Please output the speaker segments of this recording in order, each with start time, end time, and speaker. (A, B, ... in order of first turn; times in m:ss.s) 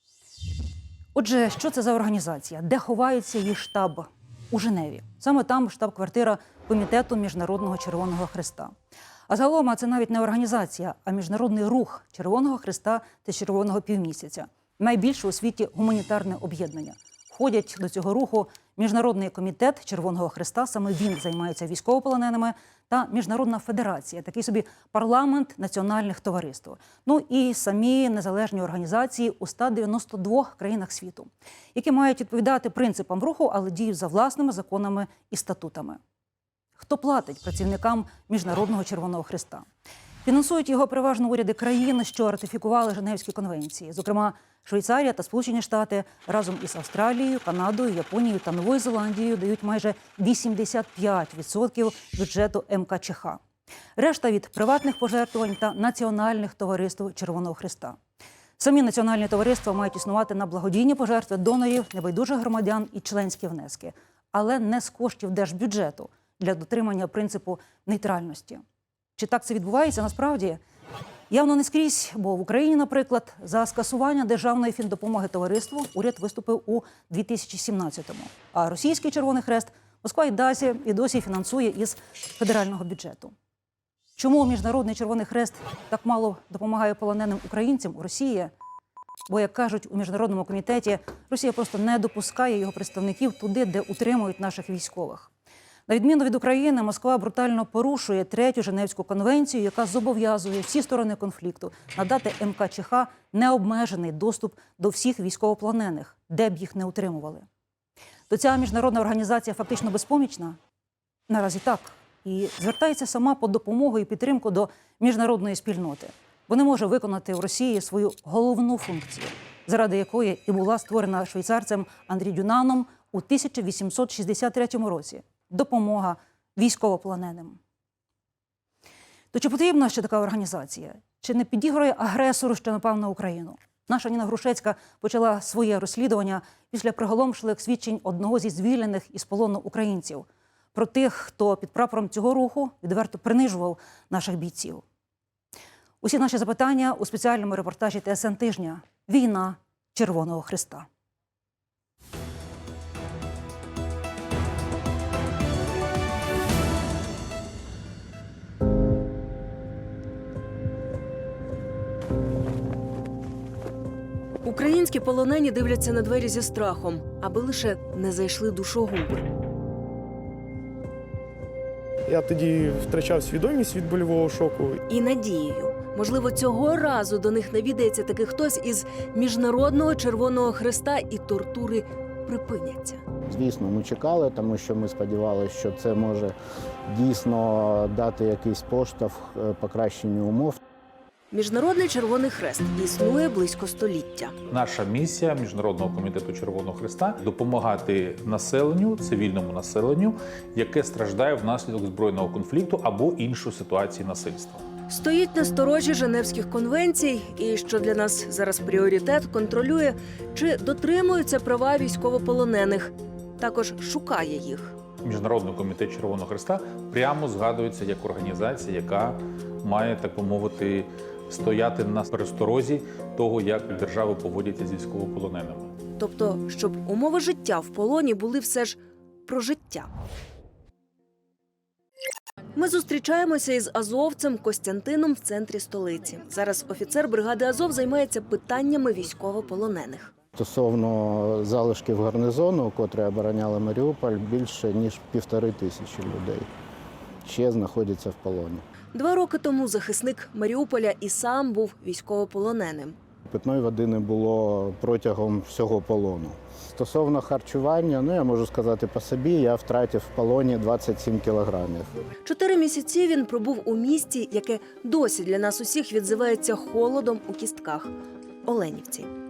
0:01.1-0:08.7 A
0:09.3-0:36.0 A
0:36.8-0:39.7 A
0:40.2-0:53.4 A
0:54.0-0:58.0 A
0:58.6-1:08.6 A
1:09.2-1:10.6 A
1:11.3-1:23.3 A
1:24.2-1:28.5 A
1:29.3-1:35.3 A
1:35.9-1:47.5 A
1:48.3-1:50.6 A
1:51.3-2:07.6 A
2:09.3-2:24.8 A
2:26.0-2:30.9 A
2:44.4-2:49.2 B
2:52.1-2:54.8 C
2:54.9-3:03.0 B
3:03.3-3:06.3 D
3:06.9-3:10.6 D
3:11.3-3:14.3 B
3:14.5-3:24.7 E
3:24.9-3:34.8 B
3:35.0-3:45.7 E
3:46.0-3:49.9 B
3:52.6-4:00.1 B
4:00.3-4:06.5 D
4:07.2-4:08.6 D
4:08.9-4:13.0 B
4:13.3-4:21.9 D
4:22.2-4:27.9 B
4:28.4-4:29.1 B